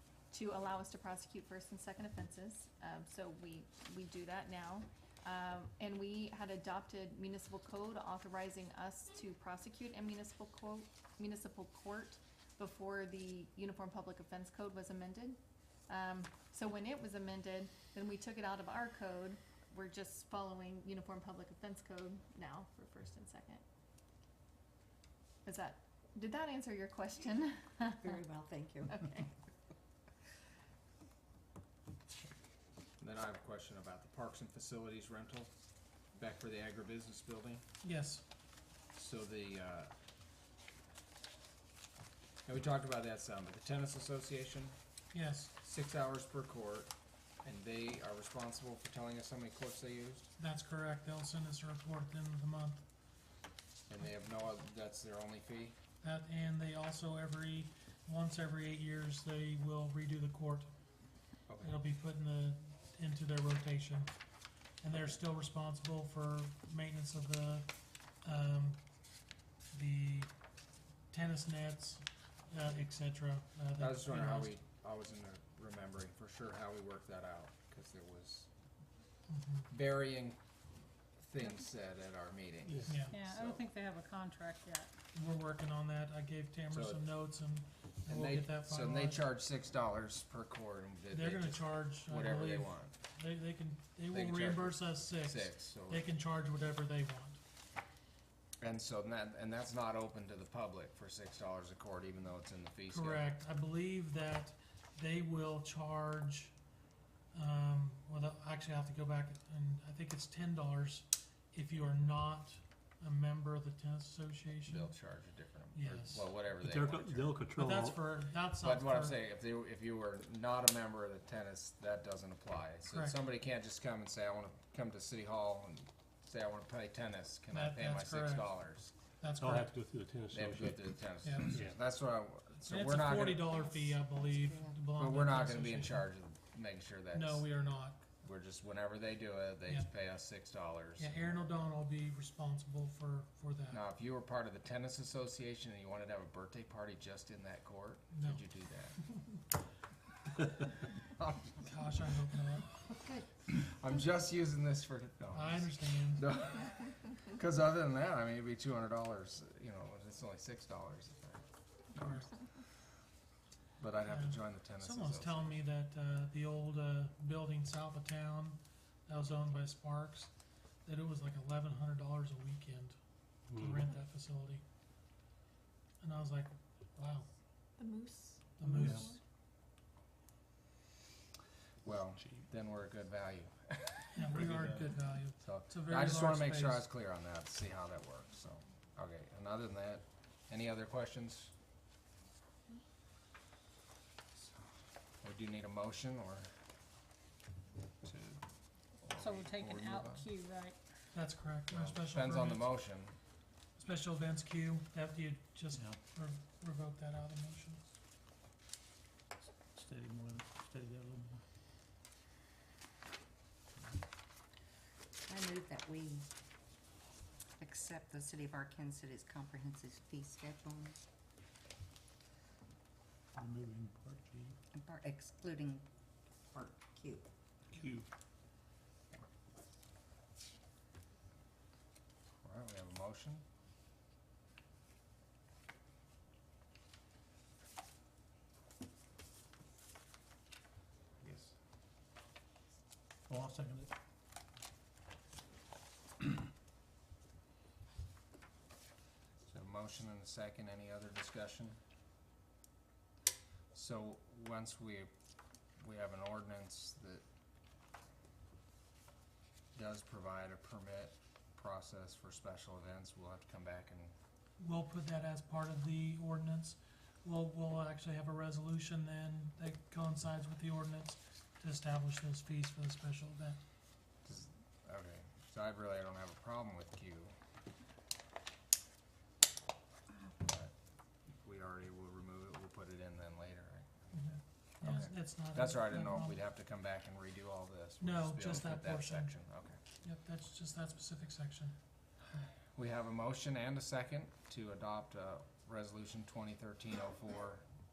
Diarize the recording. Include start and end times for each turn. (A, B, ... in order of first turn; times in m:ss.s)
0:00.3-0:15.4 A
0:15.9-0:23.6 A
0:25.4-0:28.1 A
0:28.0-0:29.3 B
0:28.9-0:29.3 A
0:33.0-0:35.5 C
0:36.2-0:37.6 C
0:37.8-0:38.2 D
0:38.9-0:39.9 C
0:42.4-0:44.7 C
0:45.1-0:45.5 D
0:45.6-0:46.9 C
0:47.4-0:50.3 C
0:50.4-0:52.8 D
0:53.9-0:55.8 C
0:56.0-1:00.7 D
1:01.5-1:01.7 C
1:01.6-1:04.1 D
1:04.8-1:08.8 D
1:09.7-1:10.3 D
1:11.1-1:14.5 D
1:13.8-1:18.5 C
1:19.3-1:19.7 D
1:19.7-1:20.4 C
1:21.2-1:23.6 C
1:22.7-1:22.9 E
1:22.9-1:23.2 D
1:23.1-1:24.9 F
1:25.1-1:29.2 D
1:26.7-1:27.0 C
1:28.0-1:32.9 C
1:31.1-1:37.4 D
1:34.1-1:36.0 C
1:38.6-1:43.2 C
1:42.9-1:46.5 D
1:47.3-1:54.9 D
1:54.6-1:57.4 C
1:55.7-1:56.3 D
1:56.6-1:58.0 E
1:57.5-1:59.2 D
1:58.6-2:08.9 C
2:02.9-2:03.2 D
2:07.5-2:08.6 D
2:09.2-2:09.7 D
2:09.4-2:11.8 E
2:10.3-2:13.5 C
2:11.2-2:11.6 D
2:12.5-2:16.0 D
2:13.5-2:14.8 B
2:14.9-2:17.4 C
2:17.1-2:18.2 D
2:18.2-2:21.3 C
2:21.0-2:23.8 D
2:23.7-2:29.0 C
2:28.1-2:28.4 D
2:31.2-2:31.5 C
2:31.6-2:32.8 D
2:32.9-2:33.3 B
2:33.5-2:41.4 C
2:35.3-2:36.3 D
2:42.0-2:42.4 D
2:43.8-2:45.5 C
2:44.1-2:50.3 D
2:50.8-2:53.0 D
2:53.5-2:53.9 E
2:53.6-2:54.6 D
2:56.0-2:57.3 D
2:57.8-2:59.2 A
2:58.6-2:59.2 D
2:58.8-2:59.1 E
3:01.8-3:04.8 C
3:04.1-3:06.8 D
3:04.3-3:04.8 E
3:05.4-3:11.5 C
3:15.2-3:16.5 C
3:18.0-3:18.4 C
3:19.0-3:20.2 C
3:19.1-3:20.8 F
3:21.1-3:22.7 D
3:21.7-3:23.2 C
3:23.8-3:27.9 D
3:25.7-3:26.0 E
3:29.8-3:31.4 E
3:35.3-3:36.2 B
3:37.6-3:41.0 B
3:43.4-3:44.5 E
3:44.7-3:45.8 B
3:46.5-3:47.2 B
3:47.7-3:48.0 E
3:52.4-3:53.4 C
4:01.2-4:01.6 C
4:03.3-4:03.9 E
4:09.4-4:11.8 C
4:13.7-4:15.1 C
4:15.8-4:17.2 C
4:19.7-4:24.1 C
4:24.6-4:33.6 D
4:34.2-4:37.3 C
4:40.4-4:40.7 C
4:41.4-4:49.8 C
4:44.2-4:46.4 D
4:48.0-4:49.3 D
4:50.0-4:51.7 D
4:52.7-4:57.6 C